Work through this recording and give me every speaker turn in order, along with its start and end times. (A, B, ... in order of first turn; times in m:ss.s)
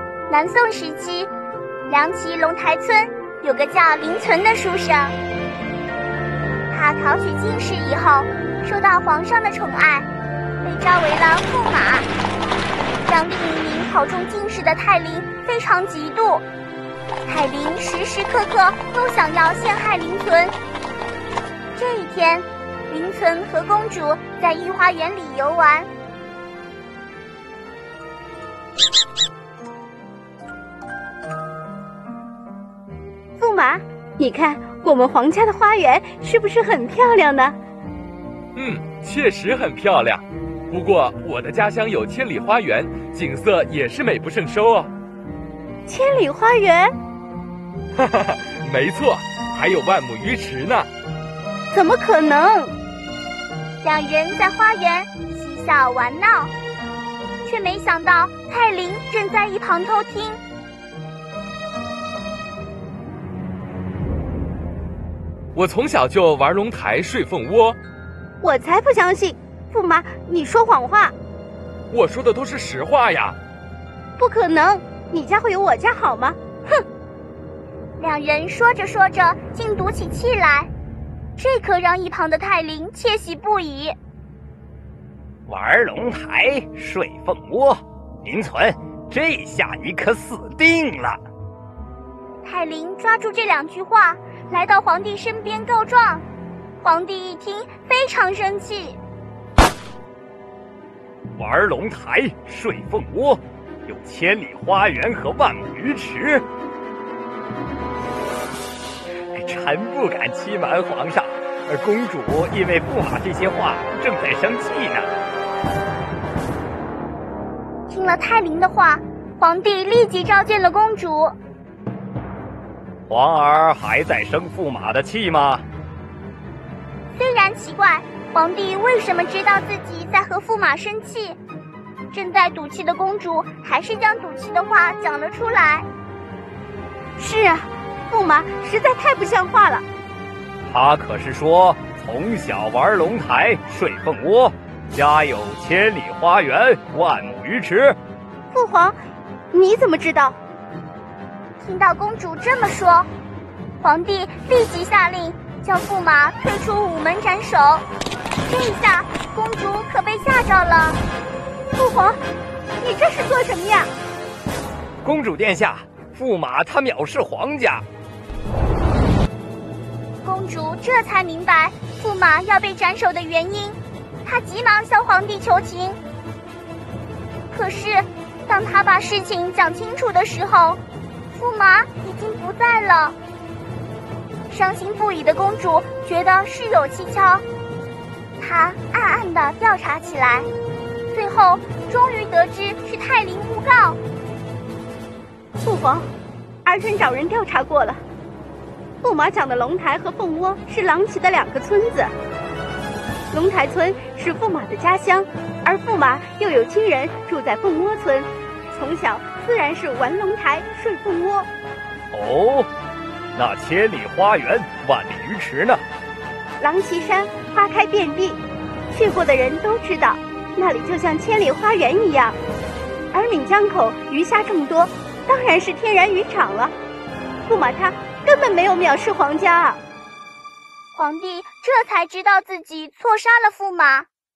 0:00.3-0:01.3 A
0:01.9-0:05.2 A
0:06.7-0:10.1 A
0:10.6-0:12.1 A
0:13.0-0:16.4 A
0:17.3-0:20.5 A
0:21.8-0:25.9 A
0:33.4-0:37.6 B
0:38.6-0:44.9 C
0:45.9-0:47.0 B
0:48.0-0:50.9 C
0:51.7-0:52.7 B
0:53.8-0:56.5 A
0:57.4-1:00.4 A
1:05.5-1:07.8 C
1:08.4-1:11.1 B
1:11.9-1:13.4 C
1:14.2-1:16.4 B
1:18.0-1:20.7 A
1:21.4-1:24.0 A
1:25.5-1:31.2 D
1:32.4-1:36.2 A
1:36.8-1:39.0 A
1:41.4-1:46.4 D
1:49.3-1:55.1 D
1:57.9-2:01.3 A
2:03.1-2:05.6 D
2:07.1-2:11.4 A
2:12.1-2:15.9 A
2:17.2-2:19.8 B
2:20.7-2:28.0 D
2:28.5-2:29.0 B
2:29.5-2:30.4 B
2:31.6-2:33.1 A
2:33.8-2:37.8 A
2:38.5-2:41.0 A
2:41.7-2:42.2 B
2:42.8-2:43.9 B
2:45.0-2:47.8 D
2:50.2-2:56.0 A
2:57.5-3:00.8 A
3:01.3-3:03.2 A
3:04.5-3:07.4 A
3:08.4-3:10.5 A
3:11.1-3:14.0 A
3:15.6-3:16.1 B
3:16.6-3:18.0 B
3:19.0-3:22.1 B
3:23.3-3:31.5 B
3:32.1-3:32.7 D
3:33.3-3:35.8 D
3:36.6-3:38.4 B
3:38.9-3:42.4 B
3:43.1-3:46.7 B
3:47.4-3:49.8 B
3:50.9-3:54.1 A